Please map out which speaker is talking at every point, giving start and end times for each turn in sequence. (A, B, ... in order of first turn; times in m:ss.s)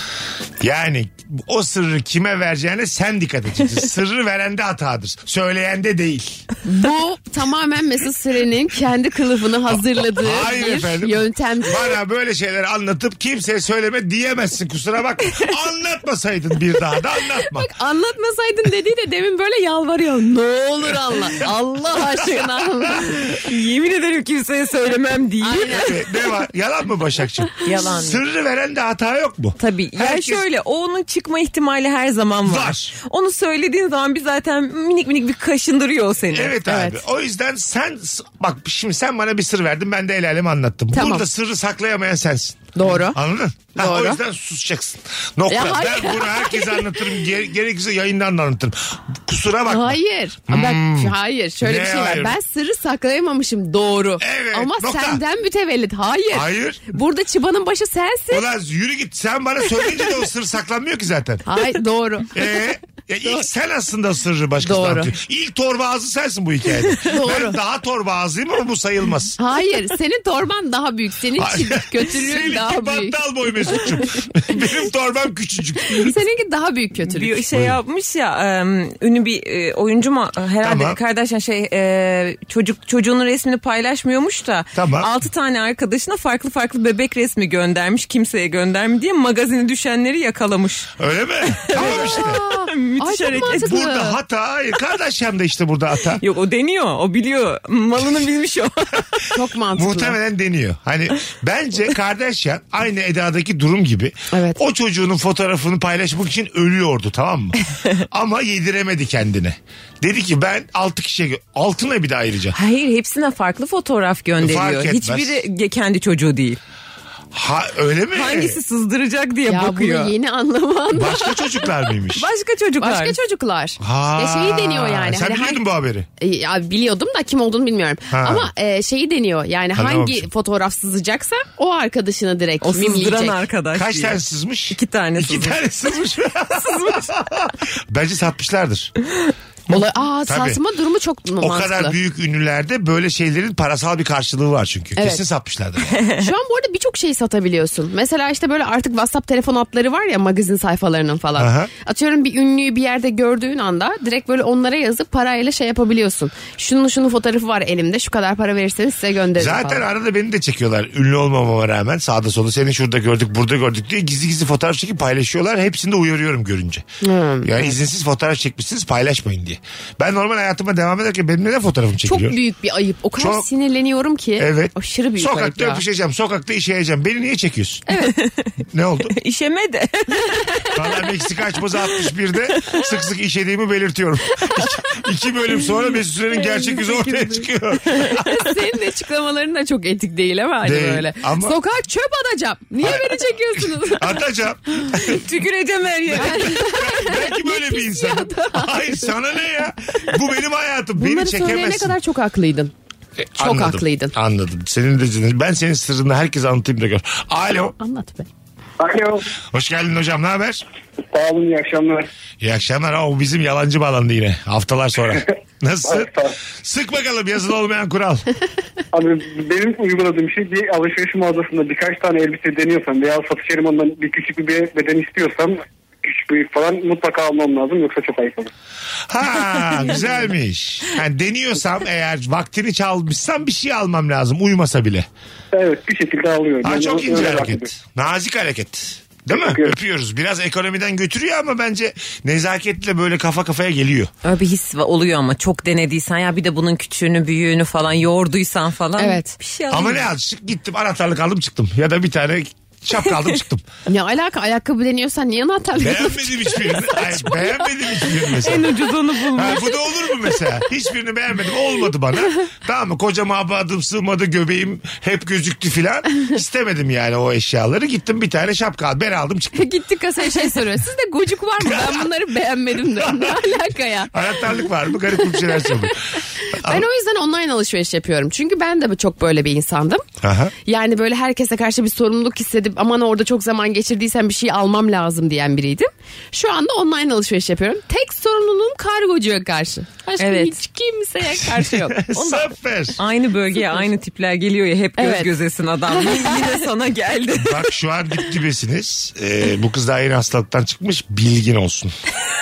0:00.6-0:06.4 A
0:06.6-0:11.9 B
0:09.7-0:17.7 A
0:17.5-0:23.2 B
0:22.9-0:25.9 C
0:25.4-0:26.1 B
0:25.7-0:30.4 A
0:27.6-0:28.2 C
0:29.6-0:36.6 C
0:32.4-0:32.9 A
0:36.3-0:52.4 A
0:36.7-0:37.0 B
0:40.9-0:41.2 B
0:42.8-0:43.2 B
0:43.7-0:44.2 B
0:45.5-0:47.0 B
0:49.7-0:58.4 B
0:54.2-0:55.2 A
0:56.3-0:56.9 A
0:58.3-1:01.6 A
1:01.5-1:02.5 B
1:02.3-1:09.4 A
1:04.6-1:05.1 B
1:07.0-1:07.6 B
1:09.4-1:13.2 B
1:11.4-1:16.2 A
1:15.9-1:17.4 B
1:17.0-1:31.0 C
1:17.5-1:17.8 A
1:20.6-1:21.0 A
1:24.8-1:25.1 A
1:31.0-1:32.4 A
1:31.5-1:33.8 C
1:31.8-1:34.2 B
1:33.3-1:36.2 A
1:36.2-1:39.3 C
1:39.3-1:40.2 B
1:39.7-1:52.6 A
1:44.3-1:44.6 B
1:52.5-1:56.6 C
1:54.4-1:55.4 A
1:57.3-1:58.6 A
1:58.1-2:00.1 C
1:59.5-2:01.7 B
2:00.9-2:02.3 A
2:02.2-2:03.2 C
2:02.8-2:05.6 B
2:03.8-2:06.1 A
2:06.2-2:13.4 B
2:08.1-2:08.5 A
2:09.8-2:10.3 A
2:12.6-2:14.2 C
2:13.7-2:18.9 A
2:14.7-2:15.6 C
2:19.7-2:22.0 B
2:19.7-2:20.6 A
2:21.4-2:26.0 A
2:25.0-2:25.2 B
2:26.1-2:39.8 B
2:31.4-2:31.7 A
2:39.4-2:46.8 A
2:47.0-2:47.8 B
2:47.4-2:52.4 A
2:52.0-2:55.8 B
2:53.2-2:53.5 A
2:54.4-2:57.8 A
2:57.9-2:58.1 B
2:58.0-2:58.5 C
2:58.7-2:59.1 A
2:59.1-3:00.7 C
3:00.8-3:08.2 A
3:06.3-3:14.2 B
3:10.6-3:11.6 A
3:12.8-3:15.2 A
3:15.0-3:16.9 C
3:16.2-3:22.0 A
3:16.2-3:19.1 B
3:21.0-3:22.7 B
3:23.2-3:27.8 A
3:23.4-3:24.2 B
3:27.8-3:28.3 B
3:28.8-3:29.2 D
3:29.5-3:30.6 A
3:31.1-3:32.1 D
3:32.4-3:36.1 A
3:35.8-3:36.3 D
3:36.6-3:38.2 A
3:38.9-3:48.5 D
3:49.1-3:55.0 A
3:55.5-3:57.7 D
3:56.6-4:04.1 A
3:59.3-3:59.7 D
4:04.2-4:10.1 C
4:09.0-4:09.3 B
4:09.7-4:13.6 A
4:13.9-4:17.0 B
4:15.8-4:29.7 A
4:18.2-4:20.2 C
4:29.6-4:34.6 B
4:31.6-4:32.1 A
4:32.8-4:33.4 A
4:34.1-4:36.8 A
4:35.3-4:35.7 B
4:36.5-4:40.0 B
4:40.2-4:40.5 A
4:40.6-4:52.0 B
4:50.2-4:50.6 C
4:51.6-4:53.0 A
4:52.1-4:57.7 C
4:55.0-4:55.3 B
4:55.9-4:56.6 B
4:57.3-5:01.9 A